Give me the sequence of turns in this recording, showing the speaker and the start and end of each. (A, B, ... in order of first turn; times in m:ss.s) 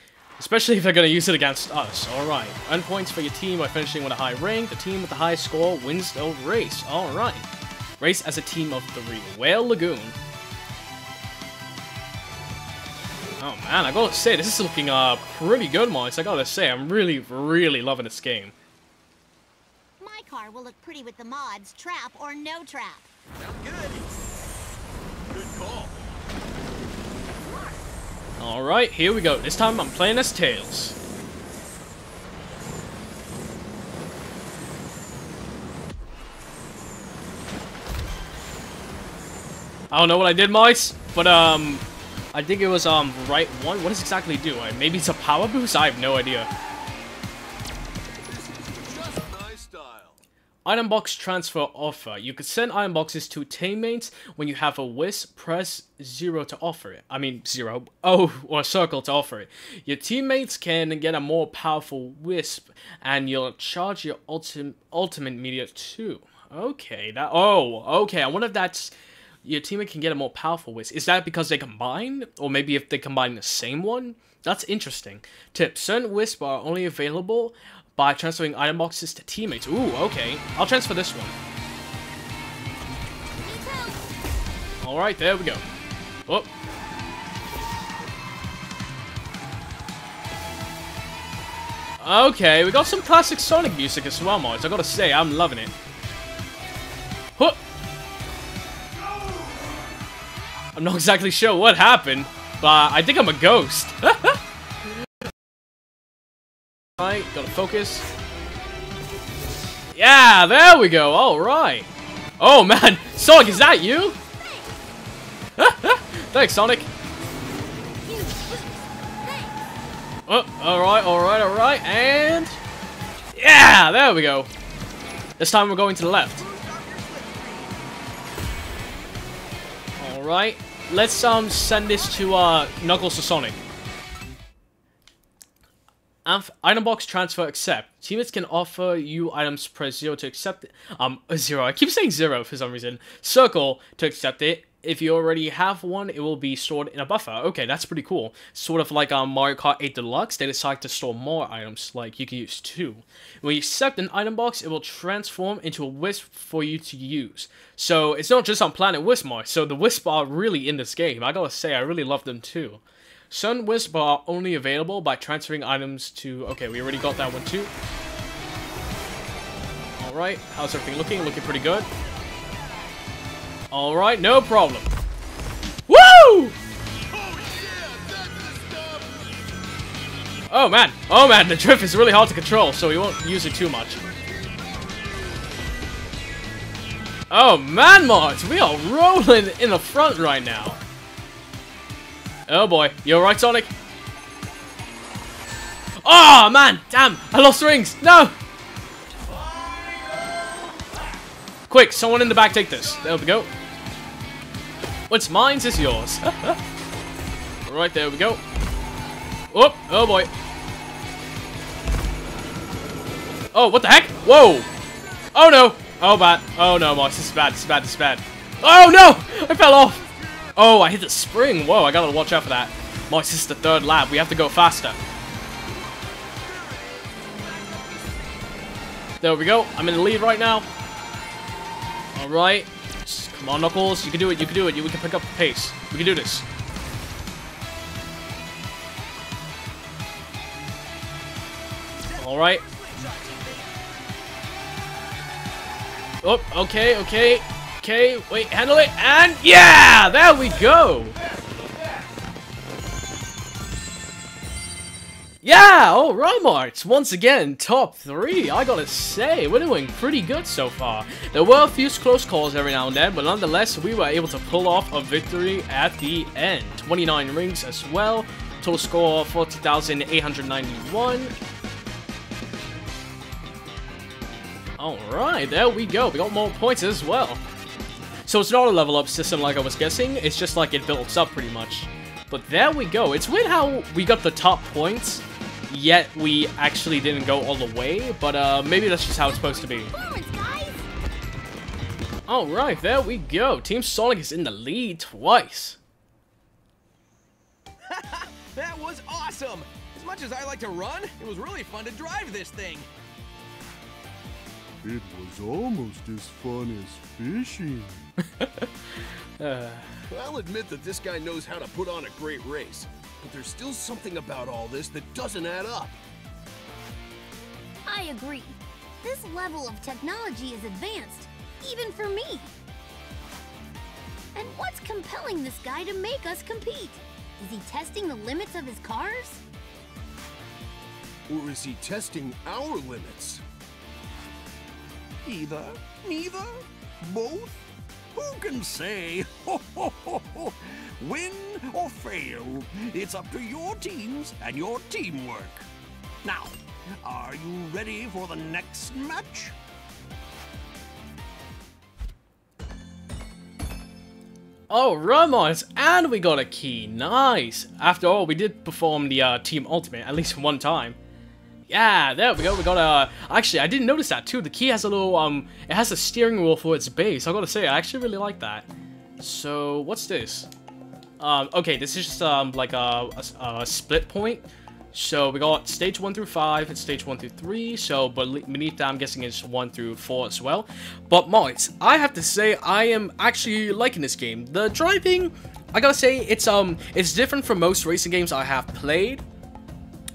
0:00.4-0:07.5 A
0:08.0-0:10.2 A
0:13.4-0:18.5 A
0:20.0-0:23.1 B
0:23.4-0:24.0 C
0:23.5-0:24.0 D
0:25.3-0:26.1 C
0:28.4-0:31.0 A
0:39.9-0:46.5 A
0:48.2-0:50.2 C
0:50.6-1:08.9 A
1:09.4-1:21.3 A
1:23.4-1:24.0 E
1:24.8-1:25.6 A
1:32.0-1:35.7 A
1:40.7-1:44.4 A
1:47.0-1:48.0 A
1:49.9-1:51.9 A
1:52.4-1:54.2 A
1:53.3-1:54.8 E
1:55.6-1:56.9 A
1:58.0-1:59.6 E
2:00.3-2:02.6 A
2:03.4-2:04.5 A
2:05.4-2:06.4 A
2:06.3-2:07.8 D
2:10.0-2:13.6 A
2:16.2-2:47.7 A
2:50.0-2:51.9 A
2:52.2-2:52.8 C
2:53.7-2:54.9 A
2:55.9-2:56.6 A
2:57.1-2:59.5 C
3:00.5-3:04.0 A
3:03.9-3:05.4 C
3:07.3-3:10.8 A
3:12.5-3:13.7 A
3:16.0-3:18.3 A
3:21.7-3:23.5 A
3:25.1-3:26.6 A
3:27.6-3:28.4 A
3:29.5-3:30.3 A
3:33.5-3:34.7 A
3:35.3-3:40.0 A
3:39.7-3:40.5 C
3:40.5-3:45.0 A
3:45.6-3:48.6 C
3:49.2-3:50.7 A
3:52.1-3:56.5 A
4:02.0-4:03.8 D
4:02.2-4:02.6 A
4:06.2-4:11.2 A
4:15.4-4:31.3 A
4:34.8-4:37.4 A
4:38.2-4:49.9 A
4:49.2-4:50.9 E
4:52.3-4:55.8 A
4:57.8-5:02.9 D
5:04.8-5:08.0 F
5:08.4-5:08.7 A
5:09.4-5:09.9 A
5:10.1-5:16.0 C
5:17.8-5:22.5 E
5:24.3-5:29.4 E
5:31.3-5:33.4 C
5:35.2-5:45.7 G
5:46.2-5:49.5 G
5:54.7-6:01.0 A
6:01.7-6:08.7 A
6:09.2-6:10.5 A
6:11.2-6:29.2 A